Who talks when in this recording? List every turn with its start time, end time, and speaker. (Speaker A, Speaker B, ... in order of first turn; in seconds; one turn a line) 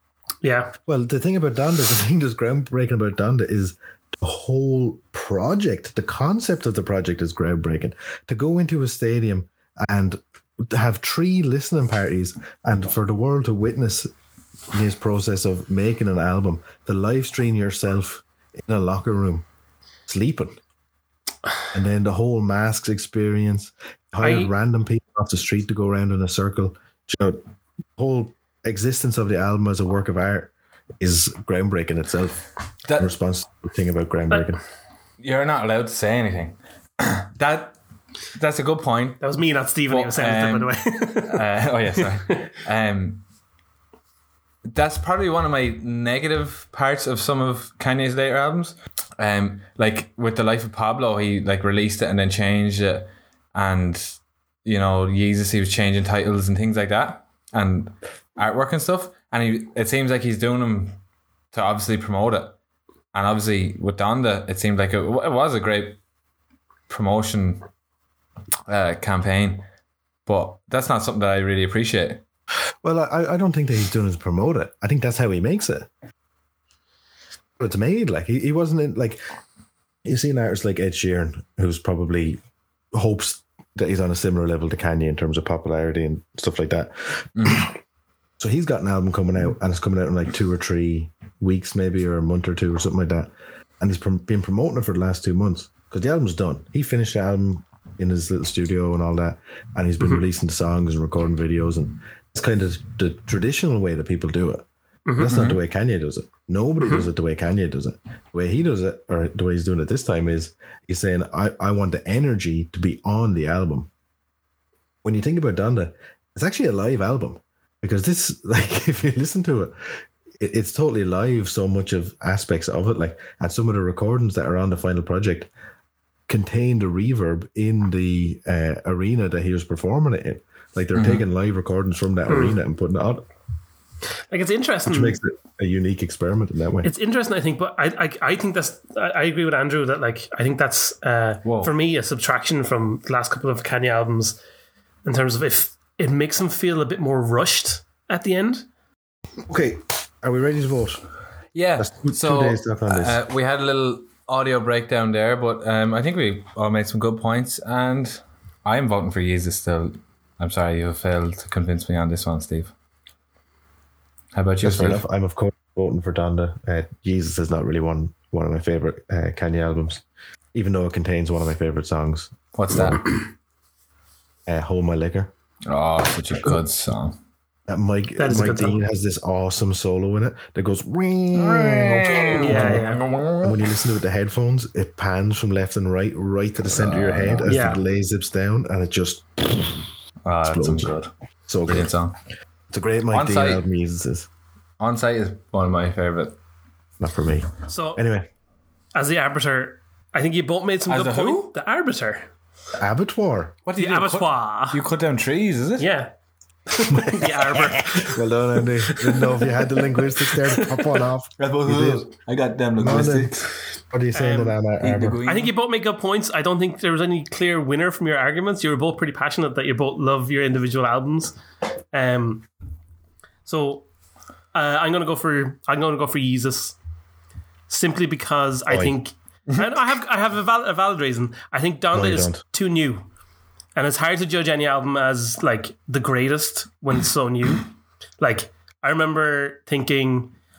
Speaker A: 0.4-0.7
Speaker B: 0.9-14.1
Speaker B: 14.7-19.5
Speaker B: 20.1-20.6
Speaker B: 21.7-27.4
Speaker A: 24.2-24.5
Speaker B: 28.0-32.4
Speaker B: 33.0-34.6
Speaker C: 35.2-37.8
Speaker C: 38.4-39.2
Speaker A: 39.2-41.5
Speaker C: 39.9-43.2
Speaker C: 44.7-61.0
Speaker C: 61.5-62.6
Speaker C: 63.1-66.0
Speaker C: 66.9-67.7
Speaker C: 68.7-69.7
Speaker C: 70.3-72.2
Speaker B: 72.8-75.9
Speaker B: 77.6-79.2
Speaker B: 80.0-82.4
Speaker B: 82.9-87.7
Speaker C: 87.4-87.7
Speaker B: 88.4-104.7
Speaker A: 105.1-105.4
Speaker B: 105.2-113.9
Speaker C: 105.2-105.6
Speaker A: 106.8-107.1
Speaker B: 115.0-119.7
Speaker B: 120.4-125.5
Speaker B: 126.3-133.2
Speaker C: 130.9-131.2
Speaker A: 132.3-132.6
Speaker A: 134.3-135.2
Speaker B: 134.9-136.9
Speaker A: 136.8-144.4
Speaker C: 141.4-141.7
Speaker A: 145.1-148.7
Speaker B: 149.5-151.0
Speaker C: 151.5-162.7
Speaker B: 151.8-153.2
Speaker C: 164.3-165.0
Speaker B: 164.6-173.0
Speaker C: 172.6-173.1
Speaker B: 174.5-175.3
Speaker C: 175.7-177.2
Speaker B: 177.7-182.8
Speaker A: 178.2-178.8
Speaker C: 181.3-183.8
Speaker A: 182.4-183.0
Speaker B: 183.4-189.9
Speaker C: 186.7-187.5
Speaker A: 187.5-187.8
Speaker C: 190.2-191.1
Speaker B: 190.4-190.9
Speaker B: 191.5-191.9
Speaker C: 191.7-192.2
Speaker B: 192.7-194.3
Speaker C: 193.1-193.6
Speaker C: 194.8-196.4
Speaker B: 197.0-198.3
Speaker A: 197.7-198.0
Speaker A: 198.9-202.3
Speaker C: 200.9-201.5
Speaker B: 202.8-203.6
Speaker C: 203.7-205.9
Speaker A: 203.8-204.8
Speaker A: 205.8-206.1
Speaker A: 206.7-208.2
Speaker B: 206.9-207.4
Speaker B: 208.0-212.1
Speaker A: 208.9-211.0
Speaker C: 211.4-213.4
Speaker B: 212.8-215.2
Speaker A: 214.1-214.6
Speaker C: 214.8-215.5
Speaker A: 215.2-221.4
Speaker A: 221.9-222.5
Speaker A: 223.4-223.9
Speaker A: 224.5-226.8
Speaker A: 227.7-233.1
Speaker B: 228.7-229.0
Speaker B: 231.9-232.4
Speaker A: 233.8-237.7
Speaker A: 238.2-240.3